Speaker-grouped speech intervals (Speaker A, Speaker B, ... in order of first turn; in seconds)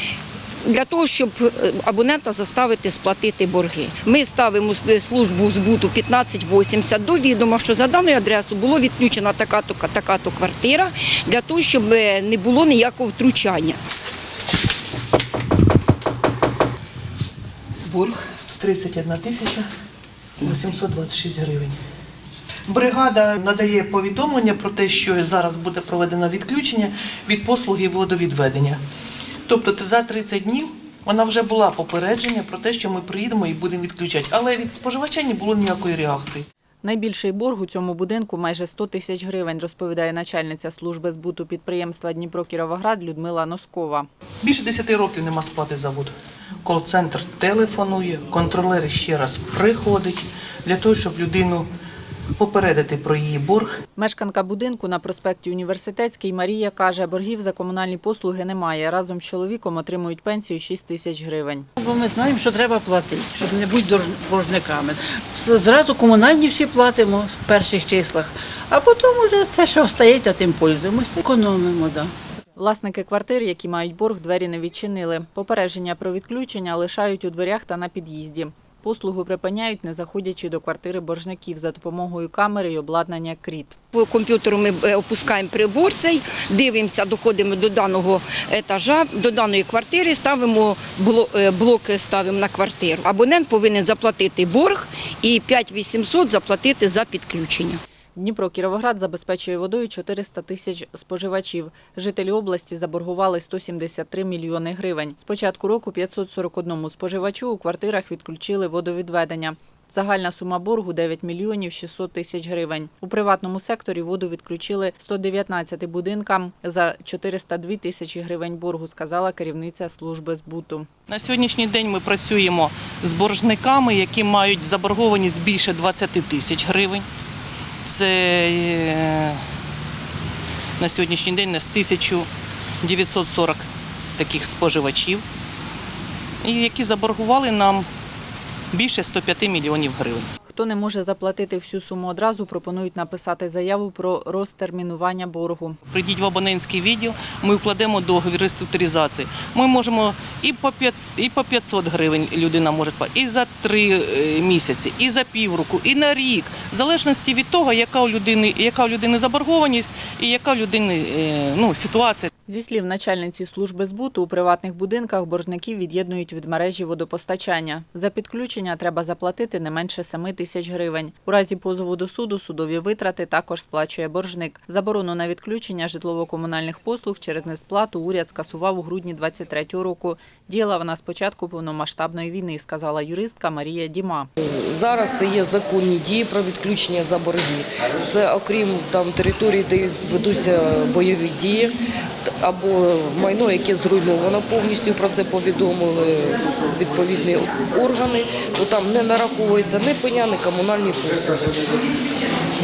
Speaker A: 0.7-13.8, 83.9-97.8
Speaker B: 17.9-19.6, 20.4-21.8, 22.7-28.8, 29.5-36.5, 44.4-46.1, 46.6-51.7, 52.4-53.7, 121.1-127.0, 127.8-129.4, 130.8-132.3, 132.8-133.6, 134.2-135.2, 136.4-137.8, 138.7-140.3, 145.9-162.3
Speaker C: 36.8-44.1, 54.0-61.7, 72.5-83.8, 98.2-120.9, 140.5-145.8, 162.5-184.3
Speaker D: 61.8-72.1
Speaker E: 184.4-191.7, 192.4-201.7